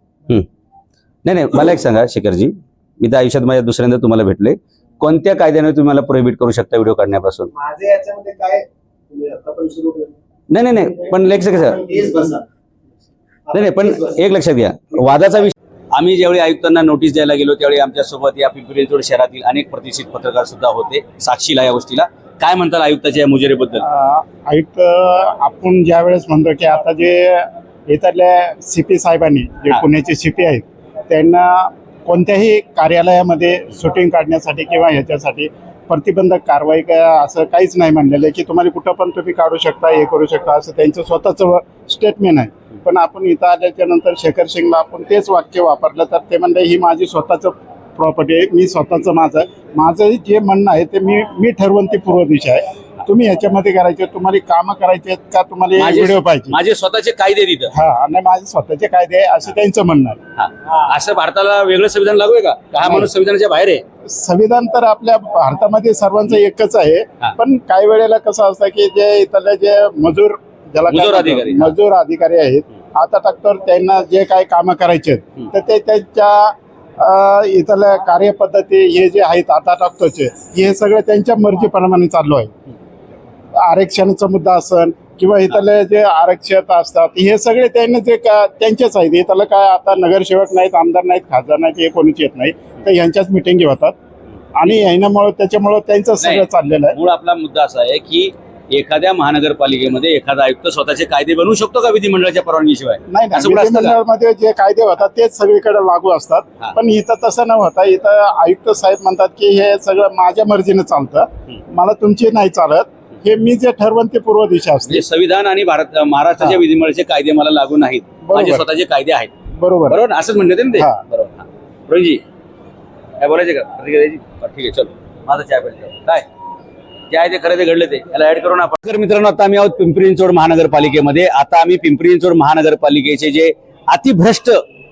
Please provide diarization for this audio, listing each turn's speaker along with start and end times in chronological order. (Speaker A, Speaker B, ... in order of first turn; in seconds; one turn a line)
Speaker A: 1.2-7.5
Speaker B: 7.5-10.1
Speaker A: 10.5-11.8
Speaker B: 11.1-12.4
Speaker B: 13.5-14.3
Speaker A: 13.5-23.8
Speaker C: 23.8-56.6
Speaker A: 55.8-57.7
Speaker C: 57.7-60.2
Speaker A: 60.4-63.8
Speaker C: 64.1-82.5
Speaker A: 70.9-71.7
Speaker C: 83.6-93.9
Speaker C: 94.5-97.0
Speaker A: 96.2-104.0
Speaker C: 103.1-115.0
Speaker A: 114.9-119.3
Speaker C: 118.2-118.6
Speaker C: 119.6-120.0
Speaker A: 119.9-122.2
Speaker C: 120.8-121.0
Speaker A: 123.2-126.2
Speaker A: 127.1-134.6